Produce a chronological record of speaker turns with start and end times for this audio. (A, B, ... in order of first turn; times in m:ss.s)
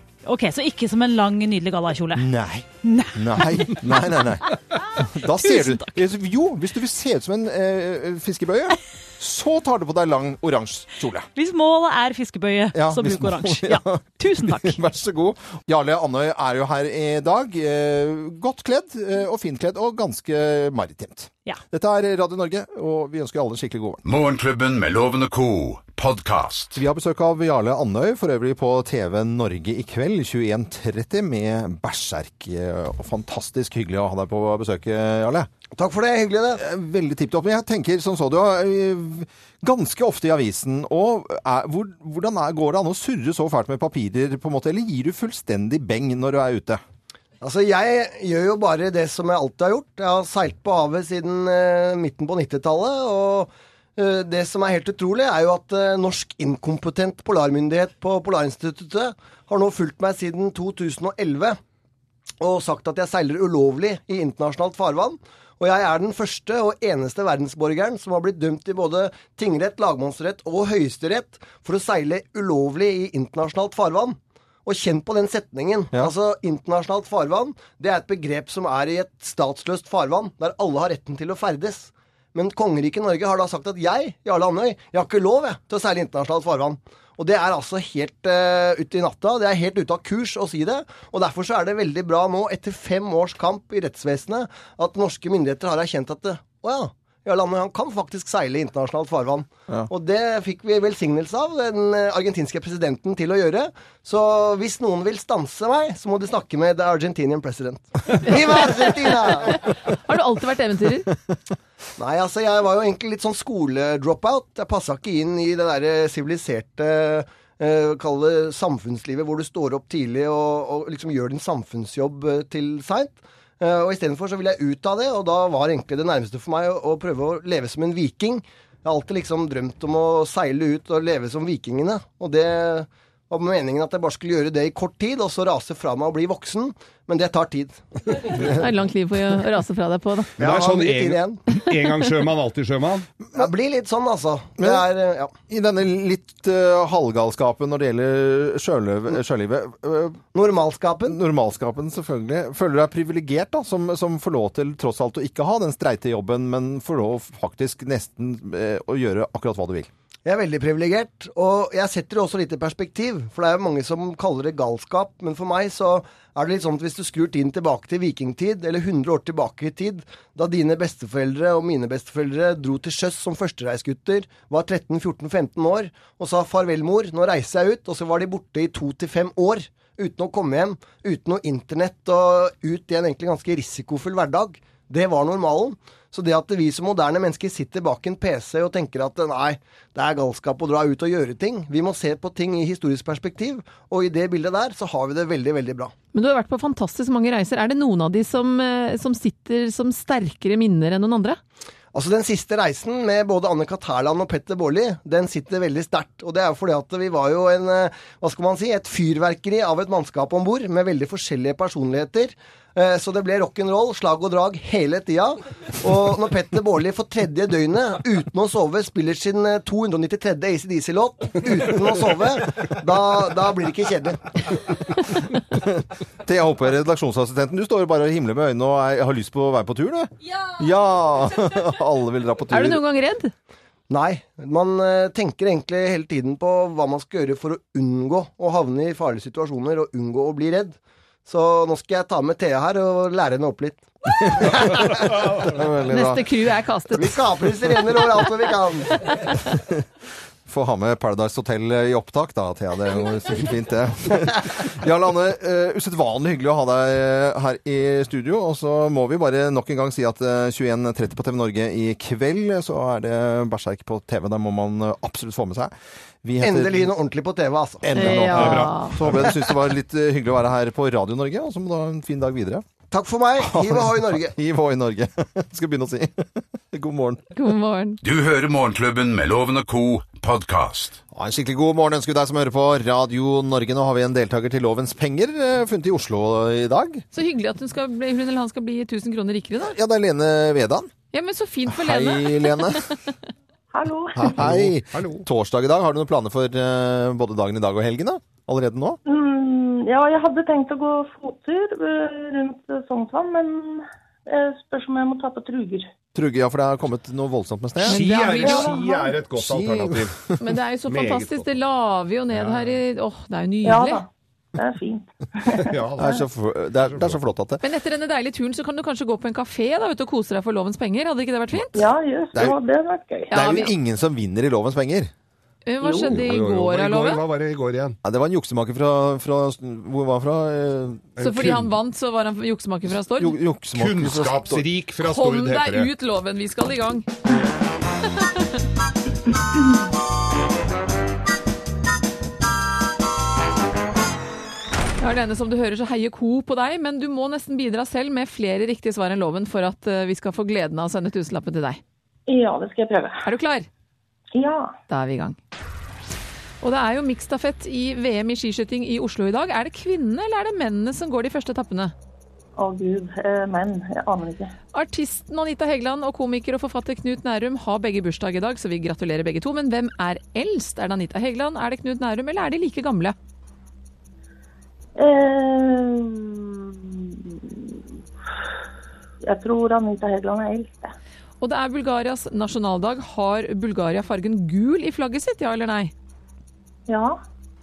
0:00.2-0:02.2 A
0:02.2-0:11.3 B
0:02.8-0:06.0 A
0:11.4-0:14.8 A
0:12.7-0:24.0 B
0:24.0-0:26.8 C
0:26.7-0:35.5 B
0:35.8-0:36.6 D
0:36.6-0:46.8 B
0:47.4-1:01.6 D
1:02.4-1:49.6 D
1:48.2-1:48.6 E
1:49.5-1:51.1 E
1:52.0-2:18.2 D
2:18.5-2:20.3 E
2:20.4-2:23.1 F
2:20.4-2:21.4 D
2:23.4-2:25.3 D
2:24.6-2:24.8 B
2:25.5-2:30.2 B
2:30.3-2:31.2 D
2:31.1-2:39.9 B
2:40.2-3:15.9 D
3:16.1-3:21.4 E
3:21.9-3:44.5 D
3:45.5-3:52.8 B
3:52.5-3:53.3 E
3:53.9-4:05.1 D
4:04.2-4:06.2 B
4:05.9-4:07.2 E
4:06.9-4:09.1 D
4:09.4-4:09.9 B
4:10.4-4:25.7 B
4:26.2-4:26.9 B
4:26.4-4:28.1 D
4:27.8-4:32.6 B
4:27.9-4:28.9 E
4:28.2-4:29.3 F
4:32.9-4:34.3 D
4:33.4-4:37.2 B
4:37.3-4:38.0 E
4:38.0-4:41.0 C
4:41.1-4:47.0 B
4:47.1-4:49.7 E
4:49.6-4:50.9 B
4:51.1-4:52.9 E
4:51.7-4:52.9 B
4:53.7-4:54.4 G
4:54.1-4:59.0 B
4:54.4-4:55.2 F
4:59.1-5:05.9 G
5:06.1-5:08.0 B
5:07.8-5:10.1 F
5:07.8-5:08.9 E
5:08.4-5:09.1 G
5:09.4-5:10.4 B
5:10.4-5:14.0 E
5:10.9-5:11.5 F
5:12.3-5:12.8 F
5:13.6-5:16.2 G
5:15.6-5:16.2 F
5:16.0-5:17.6 B
5:16.8-5:17.2 F
5:17.6-5:21.9 E
5:21.7-5:23.3 G
5:23.3-5:23.7 E
5:23.3-5:25.1 B
5:25.6-5:27.2 E
5:25.8-5:28.0 F
5:28.0-5:31.1 B
5:31.2-5:31.7 F
5:31.2-5:33.4 E
5:33.2-5:34.7 B
5:33.7-5:35.9 F
5:35.0-5:37.1 E
5:38.2-5:38.6 E
5:45.0-5:51.8 E
5:52.3-5:53.2 G
5:53.2-5:53.7 E
5:54.4-5:54.7 G
5:54.9-5:55.4 E
5:56.6-6:01.9 E
6:02.6-6:04.5 G
6:04.7-6:13.2 E
6:15.0-6:17.8 G
6:19.2-6:20.9 G
6:21.4-6:25.9 E
6:26.9-6:27.2 G